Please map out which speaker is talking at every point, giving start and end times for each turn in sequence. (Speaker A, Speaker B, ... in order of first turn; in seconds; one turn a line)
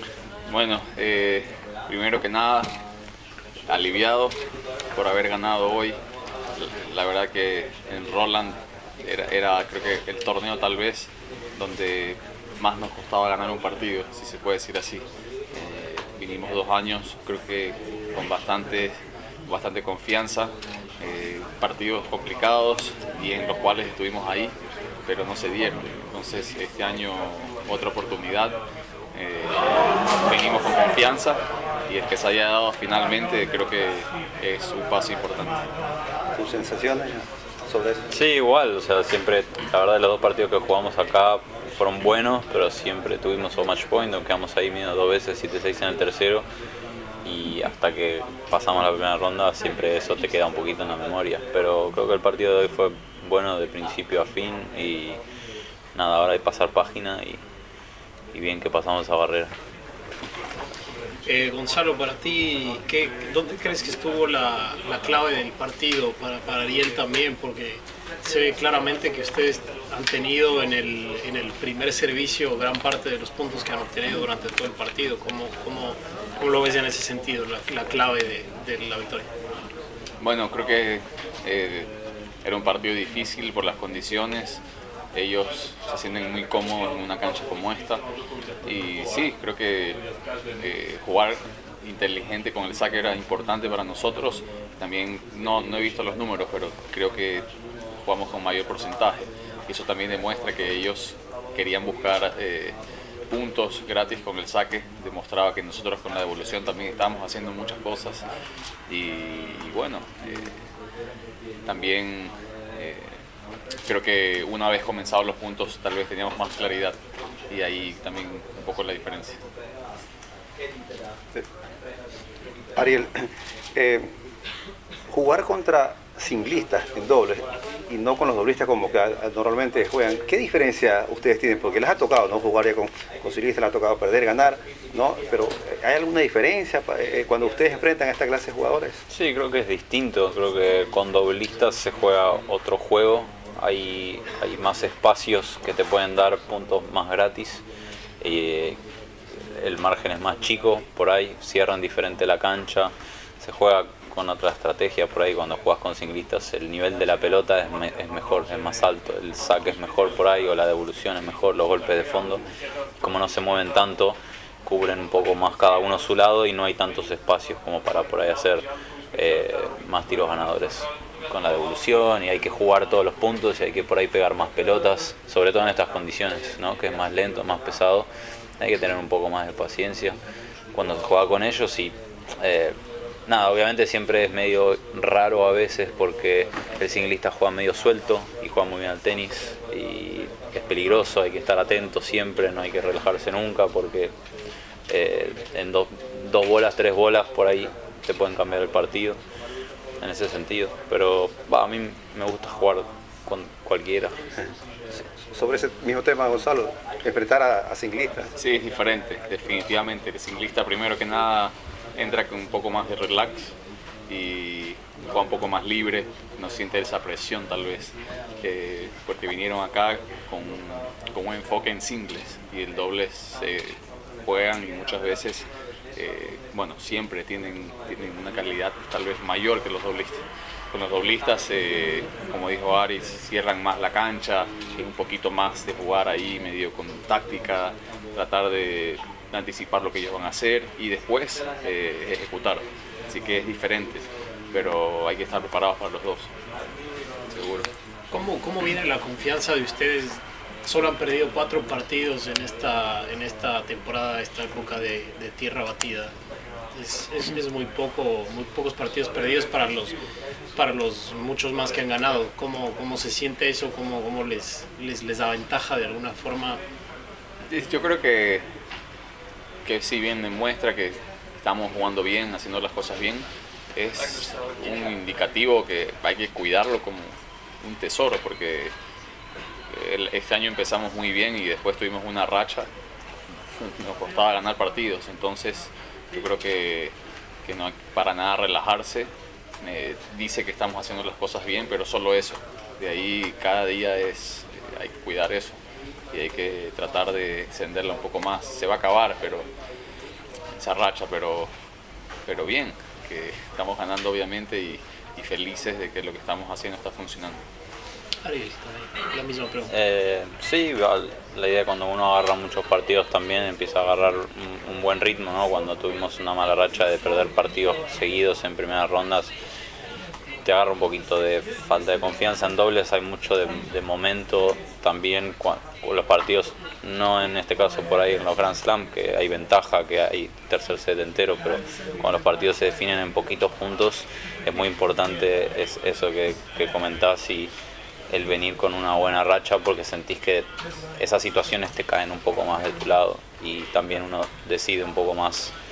Speaker A: 0.5-2.7
Speaker A: 3.7-4.3
Speaker A: 4.9-6.0
Speaker A: 6.5-18.9
Speaker A: 19.4-24.5
Speaker A: 25.1-28.6
Speaker A: 29.1-35.7
Speaker B: 36.4-38.0
Speaker C: 38.1-46.4
Speaker C: 47.2-55.2
Speaker C: 55.9-57.4
Speaker C: 58.3-59.5
Speaker D: 61.2-79.3
Speaker A: 80.2-81.9
Speaker A: 82.4-84.6
Speaker A: 85.1-88.0
Speaker A: 88.7-90.0
Speaker A: 90.6-97.5
Speaker A: 98.0-102.8
Speaker A: 103.3-108.2
Speaker A: 108.9-110.6
Speaker A: 111.7-113.1
Speaker A: 113.8-117.0
Speaker A: 117.5-119.4
Speaker B: 122.8-124.1
Speaker B: 125.1-139.0
Speaker C: 139.1-147.6
Speaker C: 148.2-148.8
Speaker C: 149.5-162.4
Speaker C: 163.0-178.1
Speaker C: 178.6-180.2
Speaker C: 180.7-182.7
Speaker C: 183.3-194.1
Speaker C: 194.9-199.2
Speaker C: 200.0-204.1
Speaker B: 205.3-208.3
Speaker A: 208.4-213.5
Speaker A: 214.1-246.3
Speaker A: 247.3-247.7
Speaker D: 248.1-256.1
Speaker D: 256.7-259.9
Speaker D: 260.6-266.6
Speaker A: 267.5-268.4
Speaker A: 269.6-278.7
Speaker A: 279.7-282.7
Speaker A: 283.5-289.1
Speaker A: 289.6-295.6
Speaker A: 296.1-299.5
Speaker A: 300.6-301.5
Speaker A: 302.3-307.4
Speaker D: 308.2-309.7
Speaker C: 309.7-319.3
Speaker C: 320.4-337.5
Speaker C: 338.1-340.5
Speaker C: 341.0-345.5